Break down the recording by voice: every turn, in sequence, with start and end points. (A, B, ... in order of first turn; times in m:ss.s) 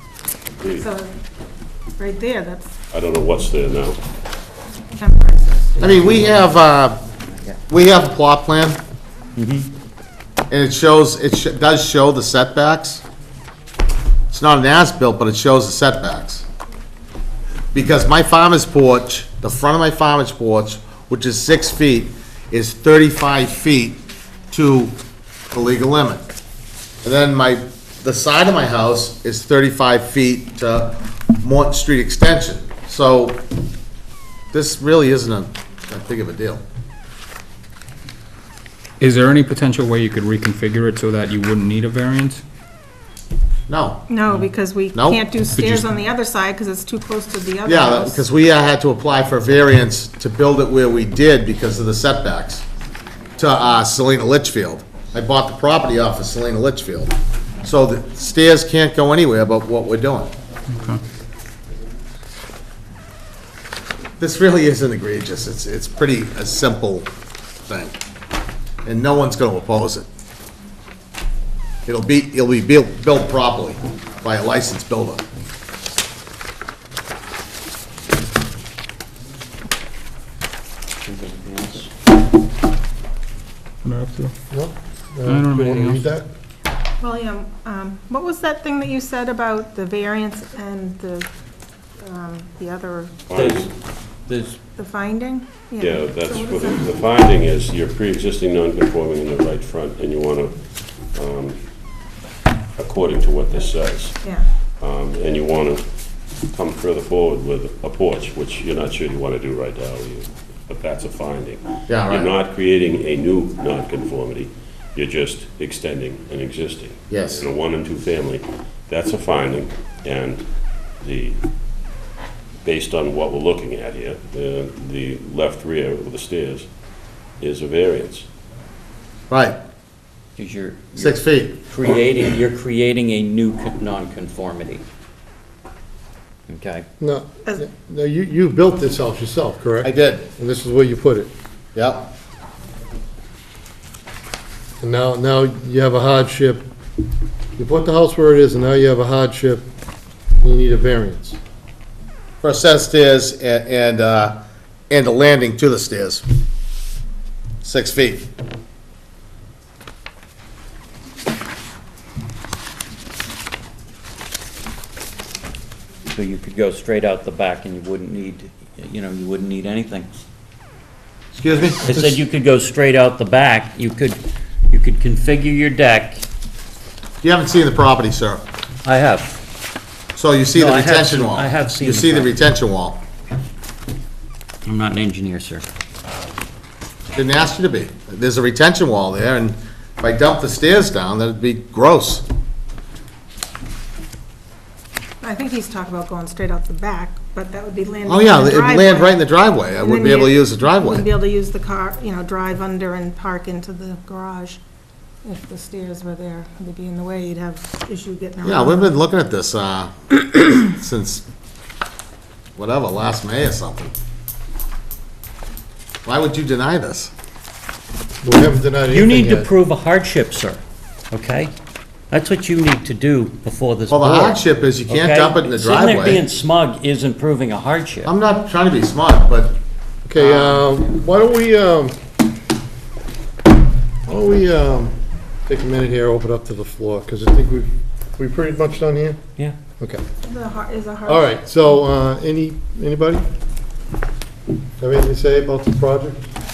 0:00.6-0:00.8 A
0:00.8-0:01.1 B
0:02.0-0:02.7 B
0:02.9-0:04.0 A
0:05.0-0:05.7 B
0:05.7-0:06.6 C
0:05.8-0:07.0 D
0:07.2-0:07.6 C
0:07.7-0:08.8 D
0:09.4-0:09.7 C
0:10.5-0:13.0 D
0:14.3-0:16.4 D
0:17.7-0:24.0 D
0:24.5-0:24.9 D
0:25.5-0:26.2 D
0:27.0-0:33.4 D
0:34.5-0:36.6 D
0:39.0-0:42.4 E
0:43.7-0:44.0 D
0:44.1-0:48.2 B
0:44.9-0:45.2 D
0:45.5-0:45.9 E
0:47.6-0:52.6 D
0:53.4-1:00.3 D
1:00.7-1:01.0 E
1:04.2-1:07.1 D
1:07.7-1:08.0 D
1:08.8-1:10.1 D
1:11.8-1:15.3 D
1:21.0-1:21.9 C
1:23.8-1:24.3 E
1:24.5-1:26.2 F
1:25.2-1:26.1 E
1:27.0-1:31.3 B
1:32.0-1:33.2 B
1:33.3-1:33.7 A
1:33.3-1:33.7 C
1:34.3-1:34.6 C
1:34.7-1:36.8 B
1:35.8-1:41.6 A
1:42.8-1:44.2 A
1:44.8-1:45.8 A
1:46.5-2:00.4 A
1:51.9-1:52.3 D
1:57.1-1:57.5 D
2:01.0-2:01.4 A
2:02.6-2:06.7 A
2:07.4-2:08.2 A
2:09.3-2:09.6 D
2:10.4-2:14.8 C
2:11.0-2:11.6 D
2:16.5-2:16.8 C
2:17.0-2:21.3 F
2:19.8-2:20.3 D
2:21.7-2:22.1 D
2:24.8-2:26.7 F
2:27.6-2:29.7 F
2:30.4-2:31.4 F
2:32.4-2:34.4 D
2:34.9-2:36.2 D
2:37.6-2:38.3 D
2:46.1-2:50.1 C
2:51.3-2:52.2 D
2:51.8-2:56.2 C
2:57.2-2:58.4 D
2:58.8-2:59.4 C
3:00.1-3:03.0 D
3:00.5-3:02.4 C
3:04.6-3:05.7 C
3:07.1-3:12.2 D
3:15.2-3:19.2 B
3:18.1-3:21.1 D
3:19.8-3:24.6 B
3:25.2-3:28.9 B
3:28.4-3:31.2 D
3:32.6-3:33.9 D
3:36.0-3:37.1 D
3:38.2-3:39.5 F
3:38.9-3:41.5 C
3:42.1-3:48.1 C
3:43.9-3:46.2 D
3:48.0-3:49.6 D
3:50.0-3:52.0 F
3:50.2-3:50.5 D
3:50.2-3:50.7 C
3:54.1-3:59.2 F
4:00.2-4:01.3 B
4:01.1-4:03.2 F
4:04.8-4:06.2 F